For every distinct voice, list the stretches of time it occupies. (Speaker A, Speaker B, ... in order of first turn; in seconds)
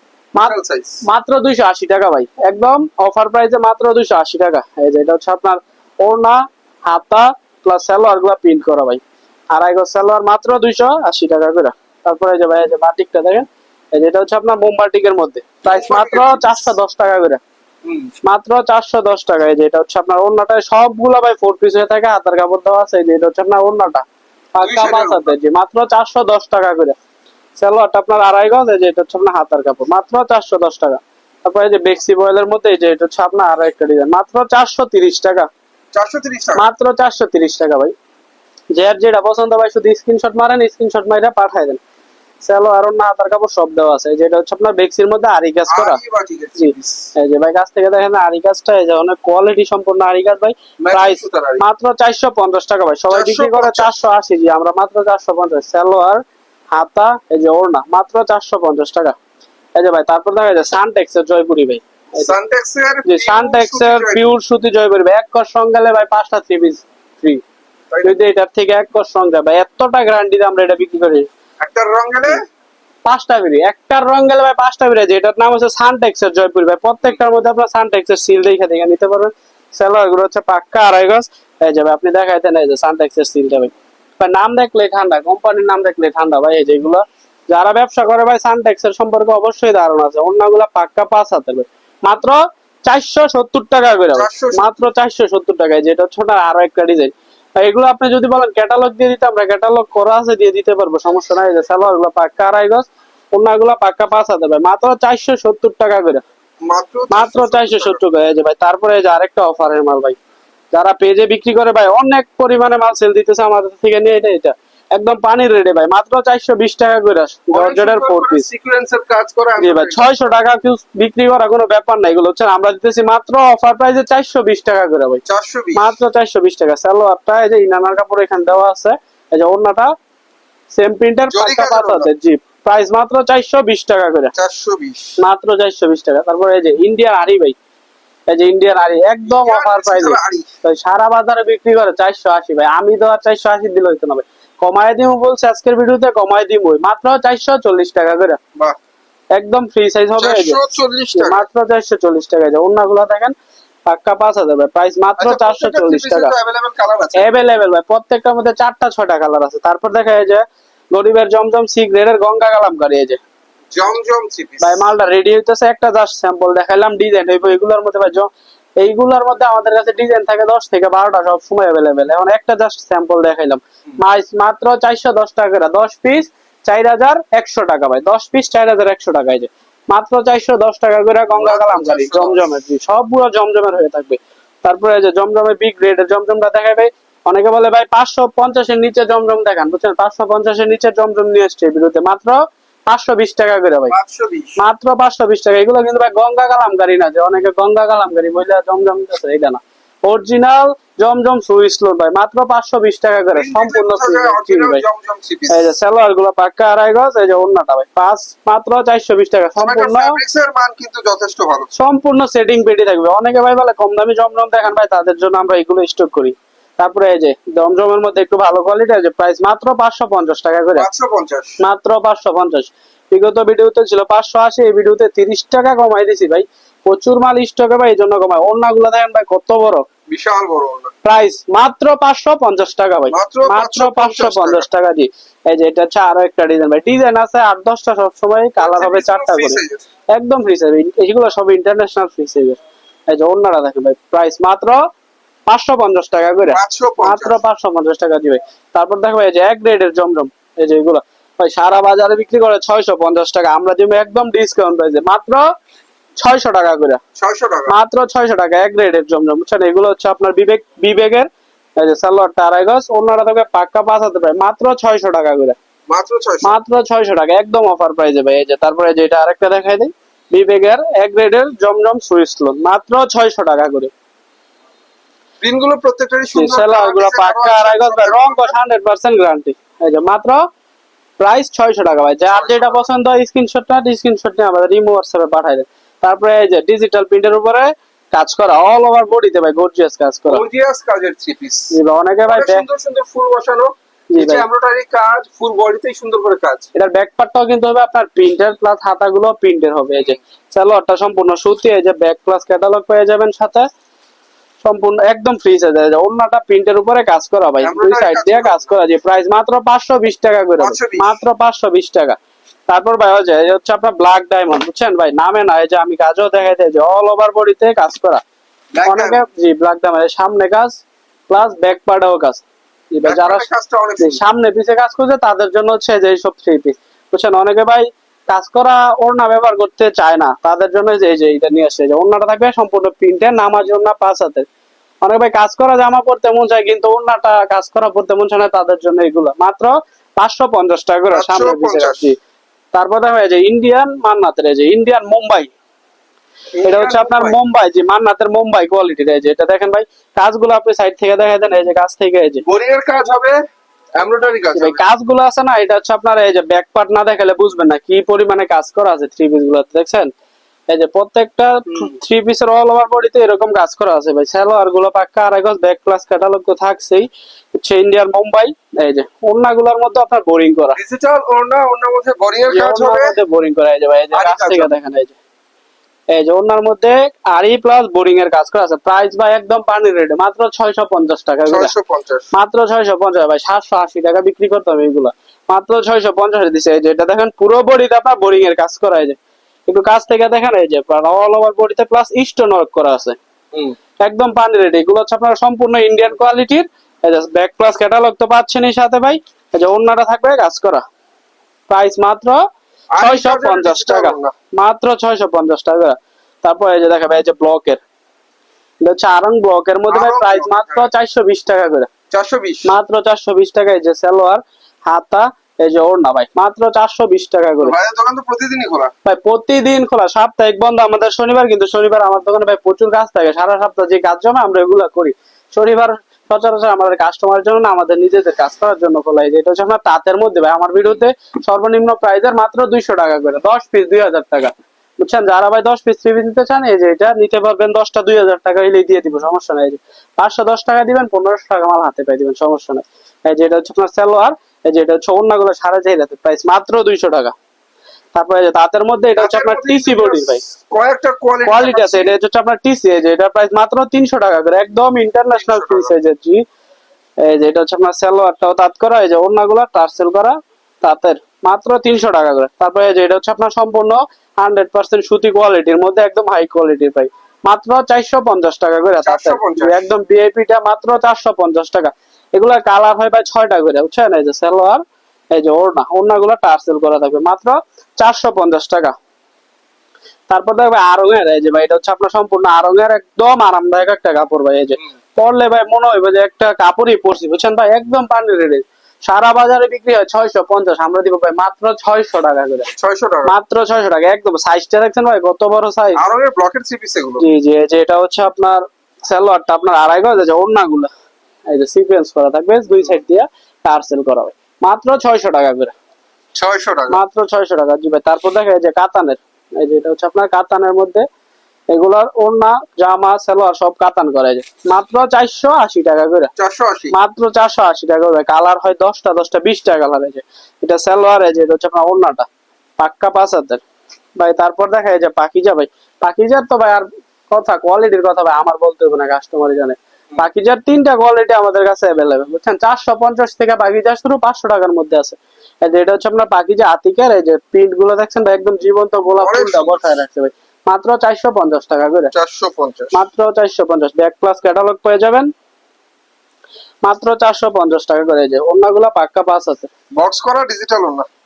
Speaker A: 0.3-17.4, 18.2-26.9, 27.6-35.5, 36.5-37.9, 38.7-41.8, 42.4-46.0, 46.6-59.1, 59.7-62.3, 63.0-67.4, 68.0-71.3, 73.0-106.2, 107.1-110.2, 110.7-118.5, 119.6-125.2, 125.7-129.9, 130.7-134.3, 135.2-137.6, 138.3-148.4, 149.3-150.6, 151.1-153.3, 153.9-156.3, 157.2-163.2, 164.6-193.9, 194.6-204.8, 205.5-210.2, 211.7-220.9, 221.6-229.8, 231.0-239.6, 240.1-244.9, 245.5-255.4, 256.2-257.0, 257.7-265.6, 266.4-273.9, 276.3-280.4, 281.2-290.4, 291.7-292.6, 294.1-294.4, 296.7-303.7, 304.6-318.2, 318.8-323.4, 324.0-334.5, 335.0-342.2, 342.7-345.5, 346.6-352.4, 354.5-360.1, 360.7-370.8, 372.5-375.2, 376.1-381.7, 382.3-393.2, 394.0-400.8, 401.7-402.4, 403.0-407.8, 408.8-411.9, 412.6-417.7, 419.0-447.3, 448.1-450.4, 451.4-456.4, 457.2-478.9, 480.3-492.7, 493.2-496.0, 497.2-500.9, 501.5-505.7, 506.9-511.1, 511.7-516.3, 516.9-522.3, 522.8-523.6, 524.2-542.1, 542.9-545.3, 546.8-549.7
Speaker B: 0.4-1.0, 15.6-16.7, 17.8-18.1, 24.6-25.3, 35.9-36.6, 45.7-47.1, 50.8-51.6, 53.1-53.9, 62.1-64.2, 67.9-68.2, 71.6-72.4, 94.1-94.7, 106.6-108.0, 117.5-120.3, 125.2-125.9, 131.3-132.1, 134.3-135.1, 139.2-140.4, 150.2-151.4, 155.2-157.3, 163.7-164.8, 181.3-182.5, 193.9-194.6, 203.3-205.7, 209.6-211.7, 220.8-221.6, 230.1-230.9, 233.1-234.7, 238.6-239.8, 246.5-247.4, 257.1-257.7, 265.9-266.5, 275.4-278.5, 282.3-282.8, 290.3-291.7, 292.3-296.7, 307.6-308.7, 310.6-311.2, 318.7-319.2, 323.0-324.2, 341.1-342.1, 346.6-347.4, 352.4-353.4, 354.0-354.8, 370.7-373.1, 374.1-374.7, 381.5-382.3, 402.9-404.3, 409.9-410.9, 412.1-412.7, 417.6-418.9, 449.1-452.1, 455.3-455.9, 469.0-469.9, 492.7-493.3, 495.9-497.2, 506.3-507.0, 516.4-516.9, 539.2-539.9, 542.1-543.0, 549.9-551.1